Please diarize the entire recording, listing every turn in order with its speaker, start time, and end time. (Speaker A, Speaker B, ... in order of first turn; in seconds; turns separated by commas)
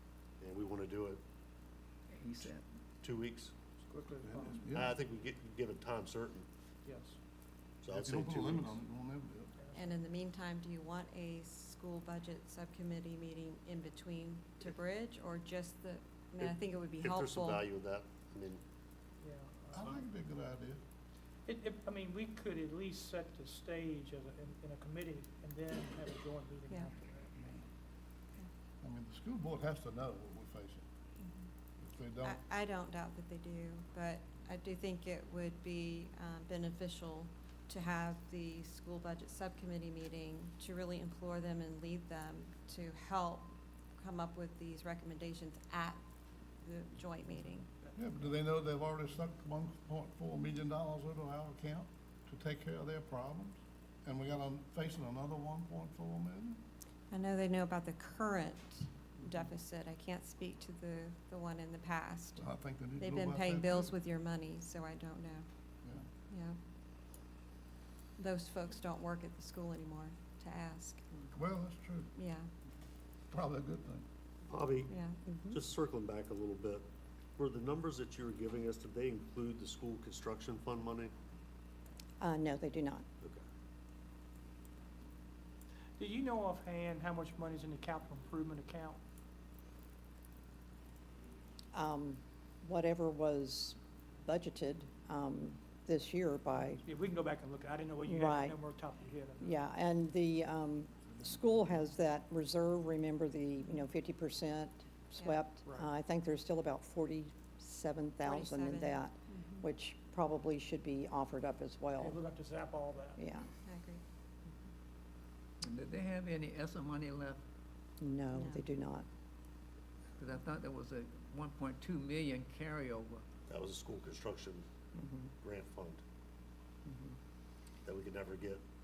Speaker A: 0.4-1.2, Speaker B: 2.1-2.6, Speaker A: 3.0-3.5, Speaker C: 3.9-4.6, Speaker D: 4.2-4.9, Speaker A: 4.7-6.5, Speaker C: 6.8-7.2, Speaker A: 7.8-8.8, Speaker D: 7.9-9.5, Speaker C: 9.6-10.0, Speaker E: 9.7-17.6, Speaker A: 16.4-18.6, Speaker C: 19.2-20.0, Speaker D: 19.7-20.8, Speaker C: 21.5-27.3, Speaker D: 27.4-27.7, Speaker D: 28.8-30.8, Speaker E: 31.2-31.5, Speaker D: 31.8-32.4, Speaker E: 32.2-46.0, Speaker E: 46.6-47.8, Speaker D: 48.0-56.6, Speaker E: 57.1-65.5, Speaker D: 62.4-63.9, Speaker E: 66.3-66.6, Speaker E: 68.2-71.1, Speaker D: 71.3-72.1, Speaker E: 72.2-72.5, Speaker D: 73.3-74.0, Speaker A: 74.5-75.0, Speaker E: 74.9-75.2, Speaker F: 75.3-75.6, Speaker A: 75.5-76.8, Speaker A: 77.4-81.1, Speaker F: 82.2-83.0, Speaker C: 86.0-89.0, Speaker F: 91.7-96.8, Speaker C: 96.9-99.6, Speaker F: 98.1-98.6, Speaker F: 99.4-112.2, Speaker E: 105.2-105.5, Speaker E: 108.2-109.7, Speaker C: 112.0-113.2, Speaker F: 113.2-113.5, Speaker E: 113.6-114.0, Speaker B: 115.6-117.4, Speaker F: 118.0-119.0, Speaker E: 118.3-118.7, Speaker B: 120.2-123.2, Speaker A: 123.5-124.7, Speaker F: 125.0-125.3, Speaker A: 125.4-126.0, Speaker F: 126.9-127.2, Speaker A: 127.8-128.6